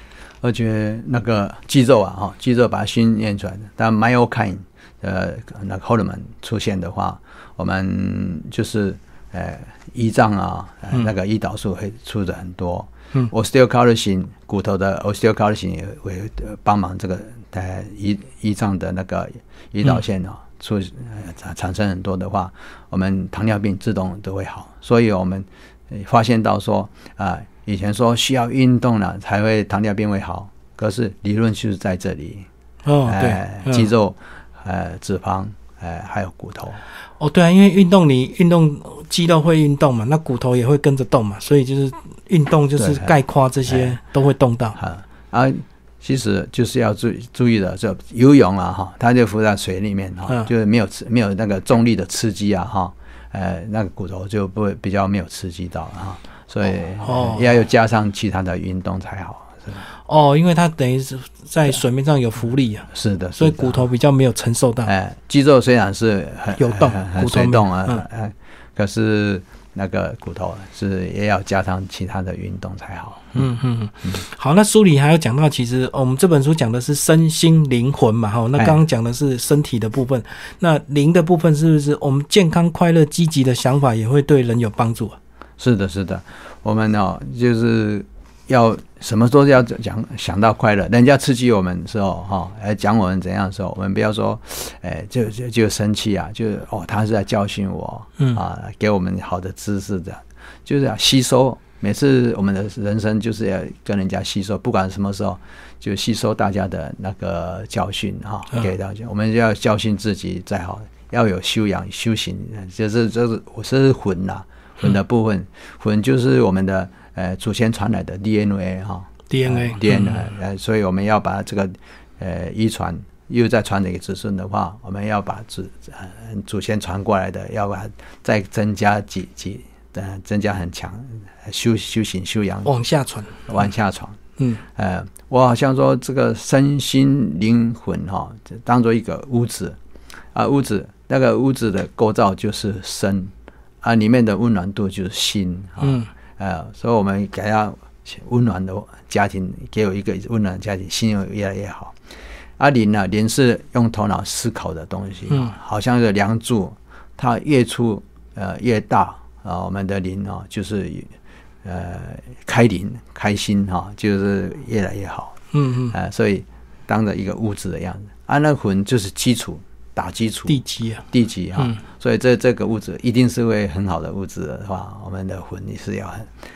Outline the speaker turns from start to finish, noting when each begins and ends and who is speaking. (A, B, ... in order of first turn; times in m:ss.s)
0:00.4-0:32.5 A
0:32.8-0:33.9 B
0:33.0-0:36.8 A
0:37.2-0:44.8 B
0:42.8-0:44.0 A
0:44.8-0:59.8 A
0:57.0-0:57.5 B
1:00.1-1:04.9 B
1:02.9-1:03.8 A
1:04.8-1:13.5 A
1:06.6-1:08.0 B
1:13.3-1:25.2 B
1:25.6-2:12.7 A
1:59.3-2:00.2 B
2:12.6-2:13.5 B
2:13.5-2:14.2 A
2:14.4-2:14.6 B
2:14.7-2:19.8 A
2:20.3-2:32.0 A
2:25.8-2:26.1 B
2:32.6-2:41.1 A
2:41.6-2:45.4 A
2:45.5-2:46.0 B
2:45.9-2:56.3 A
2:50.5-2:51.0 B